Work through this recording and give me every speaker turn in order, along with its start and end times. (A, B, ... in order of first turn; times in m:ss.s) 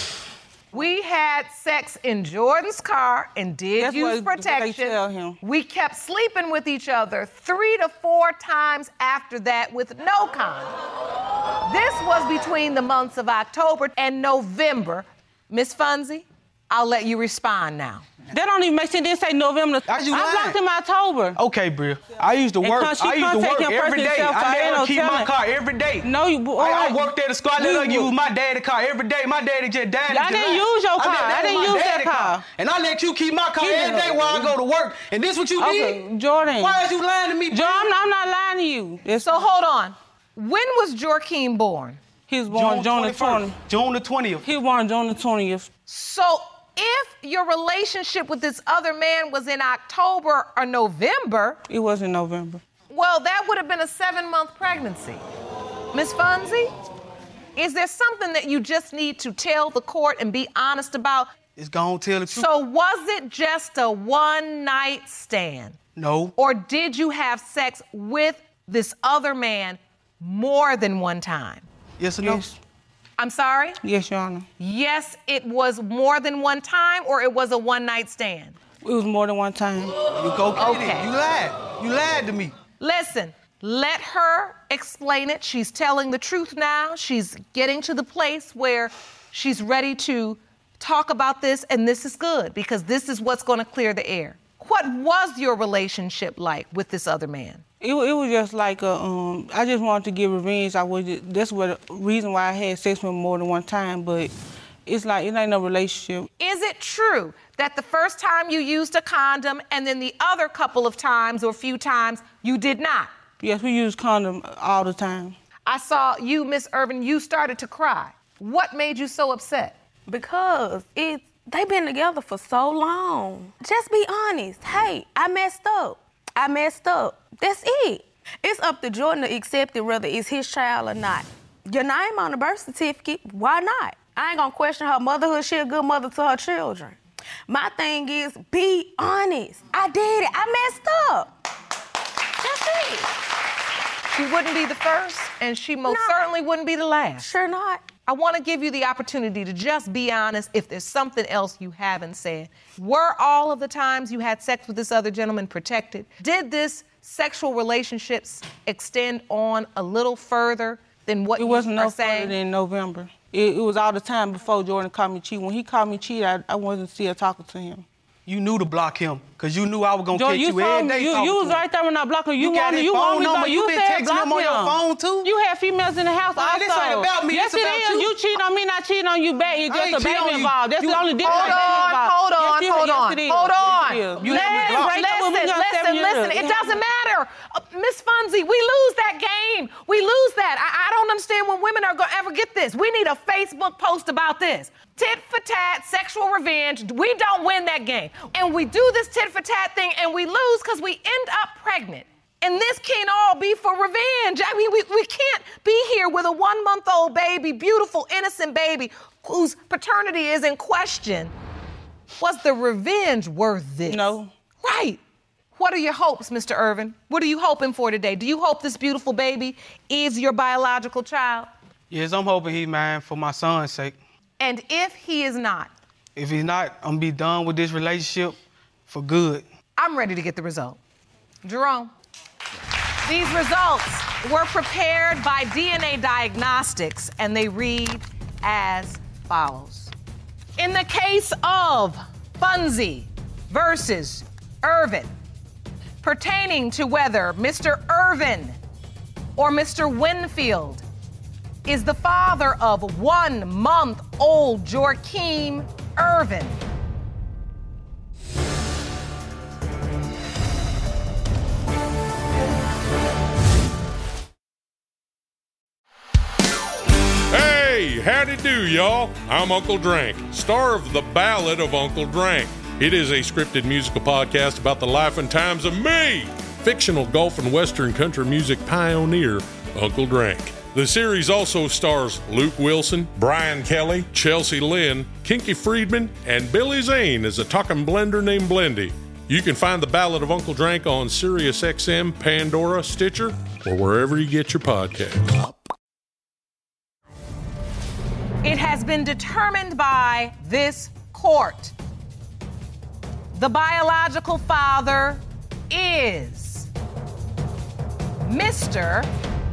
0:00.7-0:10.7 A
0:03.7-0:05.4 B
0:11.6-0:18.0 A
0:18.3-0:21.4 B
0:19.9-0:20.6 C
0:21.4-0:36.0 C
0:22.6-0:25.4 B
0:26.0-0:28.1 B
0:30.1-0:32.5 B
0:33.6-0:34.6 B
0:35.6-0:36.9 B
0:36.6-0:37.9 C
0:37.5-0:39.4 B
0:39.2-0:42.0 A
0:42.3-0:43.6 B
0:42.5-0:44.4 C
0:44.4-0:45.7 B
0:45.9-0:51.6 A
0:51.7-0:52.6 B
0:52.9-0:55.2 A
0:55.9-0:56.7 A
0:57.6-1:01.3 A
1:01.6-1:02.5 C
1:02.3-1:11.6 A
1:05.9-1:06.3 C
1:12.0-1:12.4 C
1:12.2-1:12.6 B
1:13.2-1:13.8 A
1:13.8-1:14.5 B
1:14.6-1:18.6 A
1:18.8-1:19.9 B
1:20.2-1:22.6 C
1:20.6-1:21.1 A
1:22.7-1:37.6 A
1:37.8-1:44.3 B
1:44.8-1:46.3 B
1:46.4-1:53.1 A
1:53.4-1:55.4 B
1:55.6-1:59.7 A
2:00.1-2:21.3 D
2:22.4-2:22.9 D
2:24.1-2:27.3 A
2:25.8-2:26.3 D
2:27.2-2:28.0 D
2:28.0-2:42.3 A
2:41.4-2:47.8 B
2:48.2-2:51.6 C
2:50.1-3:06.8 B
2:52.4-2:55.3 C
2:56.4-2:58.1 C
2:59.7-3:01.9 C
3:01.2-3:31.3 A
3:04.2-3:05.0 C
3:32.2-3:35.0 A
3:33.9-3:34.3 B
3:35.5-3:41.5 A
3:41.9-3:44.0 C
3:44.4-3:45.7 A
3:46.2-3:48.4 C
3:48.9-3:49.4 C
3:49.8-3:50.8 A
3:51.4-3:51.9 A
3:53.0-3:59.9 A
4:00.6-4:05.1 A
4:06.0-4:08.6 A
4:09.4-4:10.8 A
4:11.6-4:16.6 A
4:27.3-4:55.5 E
4:58.4-5:01.7 A
5:03.3-5:06.7 A
5:08.2-5:09.1 A